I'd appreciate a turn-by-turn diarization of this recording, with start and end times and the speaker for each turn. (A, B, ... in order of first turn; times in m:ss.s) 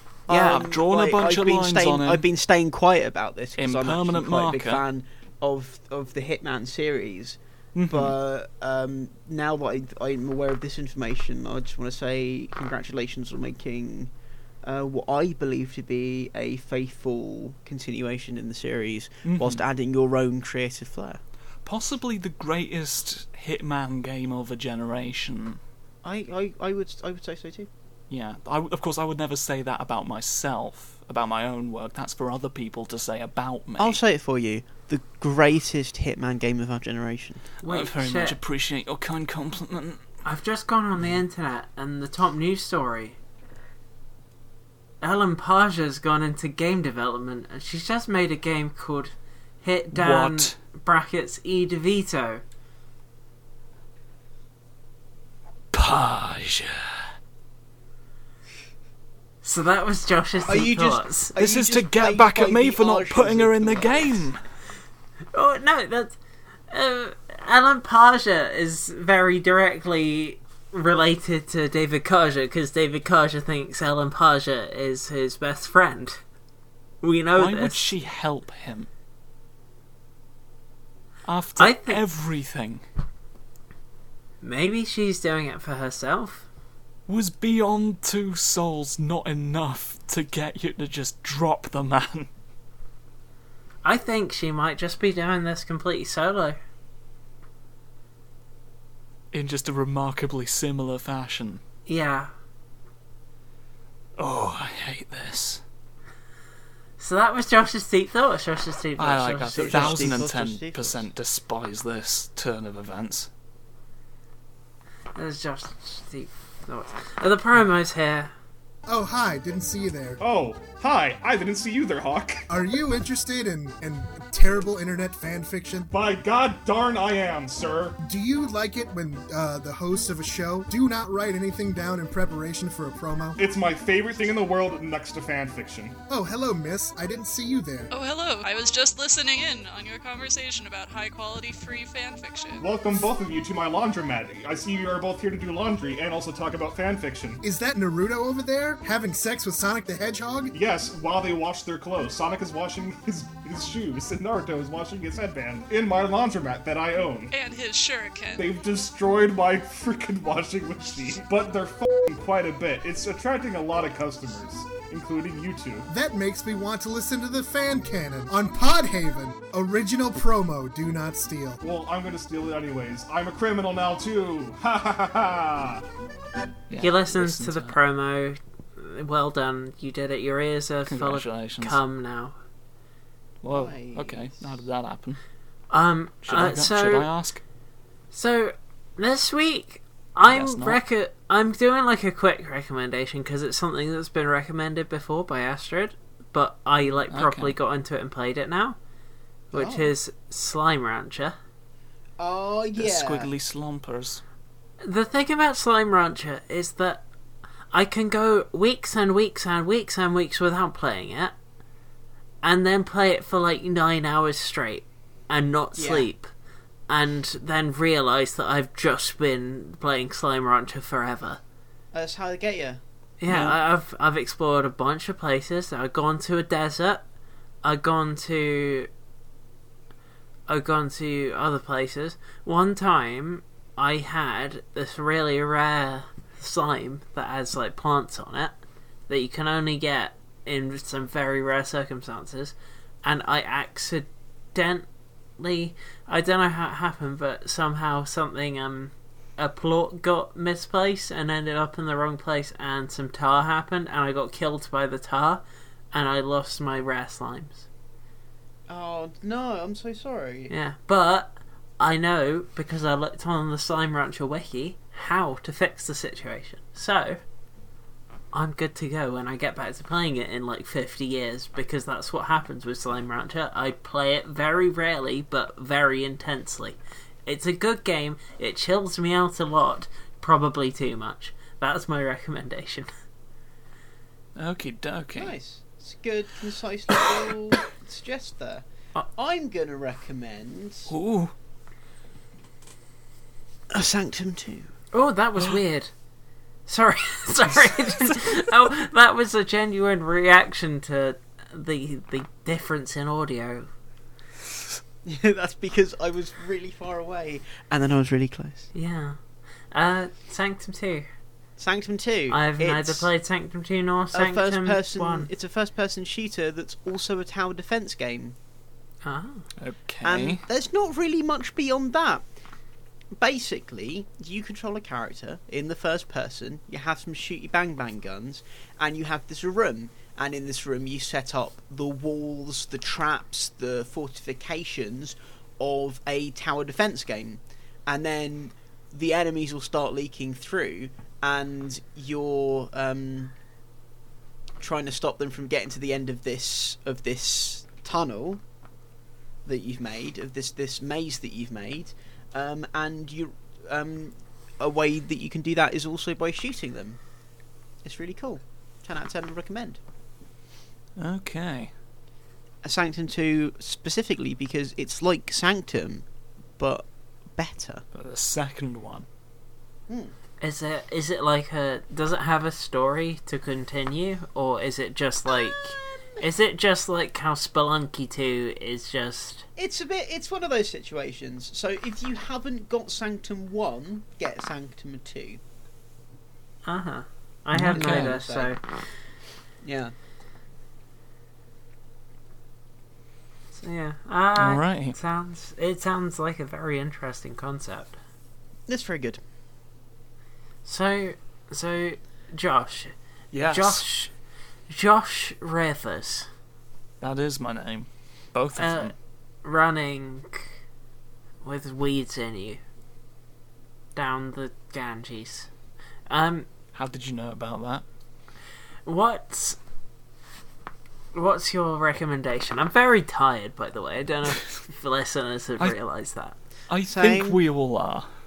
0:00.3-0:14.1 A
0:00.3-0:00.6 B
0:00.4-0:02.2 C
0:03.6-0:04.8 C
0:07.8-0:08.2 C
0:14.6-0:21.2 A
0:19.2-0:19.6 C
0:21.6-0:25.6 C
0:26.0-0:27.7 A
0:28.1-0:34.0 C
0:33.8-0:37.4 A
0:37.6-0:38.4 B
0:37.6-0:40.0 C
0:40.2-0:43.2 B
0:45.0-0:52.4 B
0:49.9-0:50.6 C
0:55.7-0:57.0 C
0:59.4-1:01.4 B
1:00.5-1:04.3 A
1:01.4-1:04.4 C
1:05.3-1:06.2 B
1:06.7-1:16.2 B
1:17.0-1:17.9 B
1:17.4-1:18.9 C
1:21.2-1:22.8 C
1:21.6-1:22.0 B
1:24.4-1:26.5 B
1:27.1-1:32.3 C
1:33.8-1:36.6 B
1:39.3-1:41.6 C
1:41.9-1:42.3 B
1:44.2-1:45.6 C
1:47.0-1:50.2 B
1:49.0-1:53.3 C
1:49.6-1:51.1 A
1:55.2-1:58.3 B
1:58.9-2:00.2 D
2:00.2-2:02.5 E
2:02.5-2:05.9 D
2:05.9-2:08.0 E
2:08.0-2:13.4 D
2:13.4-2:16.0 E
2:16.1-2:17.9 D
2:17.9-2:22.7 F
2:22.6-2:27.4 E
2:27.4-2:30.5 D
2:30.5-2:37.3 E
2:37.3-2:38.5 F
2:38.4-2:45.9 E
2:45.9-2:51.6 D
2:51.6-2:55.8 E
2:56.7-2:57.8 C
2:56.8-3:02.4 B
3:00.9-3:01.8 C
3:03.4-3:05.2 C
3:03.5-3:04.6 A
3:05.7-3:07.1 B
3:06.3-3:07.4 C
3:08.1-3:18.8 B
3:10.3-3:10.8 C
3:17.1-3:17.6 C
3:19.5-3:21.4 B
3:19.5-3:19.9 A
3:22.2-3:23.3 A
3:22.8-3:24.2 C
3:24.8-3:27.0 B
3:27.7-3:31.3 B
3:32.4-3:36.3 B
3:35.8-3:36.1 A
3:36.9-3:41.4 B
3:41.9-3:43.6 A
3:43.2-3:47.0 B
3:47.6-3:48.9 B
3:50.5-3:58.6 B
3:59.1-4:04.9 B
4:05.4-4:17.7 B
4:18.7-4:20.5 A
4:20.5-4:27.2 B
4:28.3-4:42.9 B
4:44.4-4:45.4 C
4:45.2-4:50.9 A
4:50.9-4:51.3 C
4:53.7-4:54.7 A
4:54.9-4:55.9 B
4:56.7-5:03.7 B
5:05.0-5:08.7 A
5:08.7-5:09.2 B
5:09.7-5:11.1 B
5:11.6-5:13.1 A
5:12.3-5:15.3 B
5:14.1-5:18.4 A
5:19.0-5:19.5 B
5:19.6-5:20.4 C
5:20.0-5:22.2 A
5:23.1-5:43.4 A
5:44.6-5:48.4 A
5:49.5-5:57.0 A
5:57.8-5:59.8 A
6:01.0-6:01.7 C
6:02.6-6:06.0 A
6:06.6-6:07.8 A
6:07.9-6:09.1 C
6:09.9-6:10.2 A
6:10.4-6:19.5 B
6:19.6-6:25.4 A
6:26.7-6:28.6 B
6:27.5-6:28.2 C
6:27.7-6:28.5 A
6:29.6-6:29.9 A
6:33.6-6:38.0 B
6:34.4-6:35.0 C
6:38.7-6:39.2 A
6:40.6-6:42.9 B
6:43.3-6:43.8 C
6:43.4-6:44.1 B
6:44.7-6:46.3 B
6:47.0-6:48.9 C
6:48.6-6:48.9 B
6:49.4-6:50.5 B
6:51.4-6:52.6 B
6:54.0-6:55.5 B
6:56.1-6:56.5 B
6:56.7-6:57.8 C
6:58.9-6:59.6 B
7:01.1-7:06.4 B
7:06.7-7:08.1 C
7:06.9-7:07.4 A